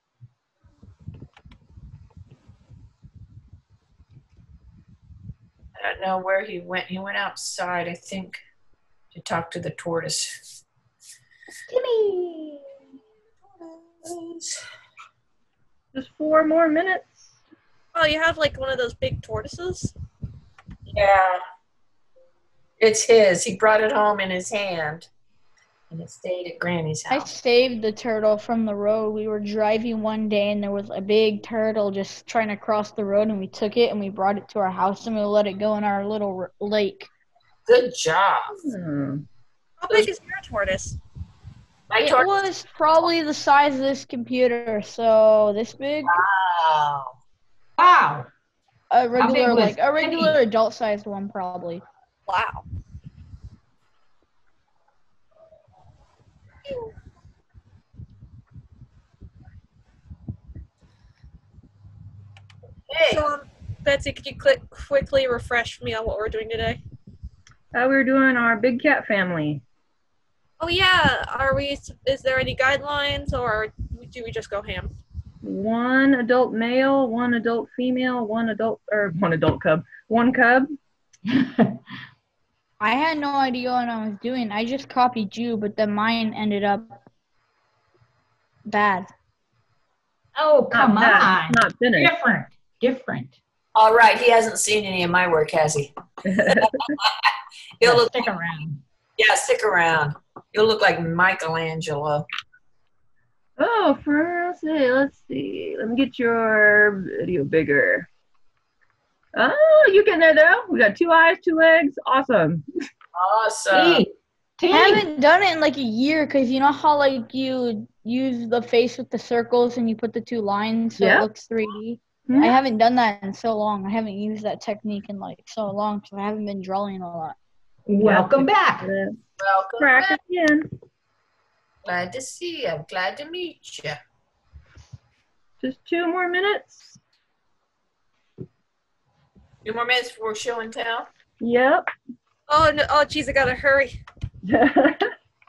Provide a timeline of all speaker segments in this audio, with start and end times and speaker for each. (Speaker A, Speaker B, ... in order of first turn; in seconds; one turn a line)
Speaker A: 5.8-8.4
Speaker A: 9.1-10.4
Speaker B: 11.7-12.6
Speaker A: 14.0-14.6
Speaker C: 15.9-17.4
Speaker D: 17.9-19.9
Speaker A: 20.9-21.4
Speaker A: 22.8-25.1
Speaker A: 25.9-27.3
Speaker E: 27.1-37.1
Speaker A: 37.7-38.6
Speaker C: 38.6-39.3
Speaker D: 39.8-41.0
Speaker A: 41.9-42.3
Speaker E: 42.0-46.2
Speaker A: 46.1-47.1
Speaker B: 47.8-48.3
Speaker E: 48.9-51.8
Speaker B: 49.2-50.4
Speaker D: 52.3-52.6
Speaker D: 56.7-56.9
Speaker A: 62.9-63.3
Speaker D: 63.1-66.8
Speaker C: 67.7-69.6
Speaker D: 70.6-74.9
Speaker C: 75.4-80.7
Speaker B: 81.3-81.8
Speaker E: 82.8-87.0
Speaker E: 88.6-89.1
Speaker B: 90.4-93.4
Speaker C: 90.7-92.1
Speaker A: 93.8-98.3
Speaker C: 96.3-97.0
Speaker B: 97.8-98.8
Speaker A: 99.2-102.3
Speaker C: 103.6-108.1
Speaker C: 109.4-112.6
Speaker A: 113.1-114.0
Speaker B: 113.7-115.1
Speaker E: 114.7-127.4
Speaker C: 121.0-121.3
Speaker C: 122.3-122.6
Speaker B: 127.9-128.9
Speaker C: 128.0-129.2
Speaker A: 129.4-130.2
Speaker C: 129.8-130.7
Speaker A: 131.8-134.0
Speaker C: 135.6-137.0
Speaker A: 139.6-141.1
Speaker C: 141.4-141.8
Speaker D: 142.5-144.0
Speaker C: 144.5-145.1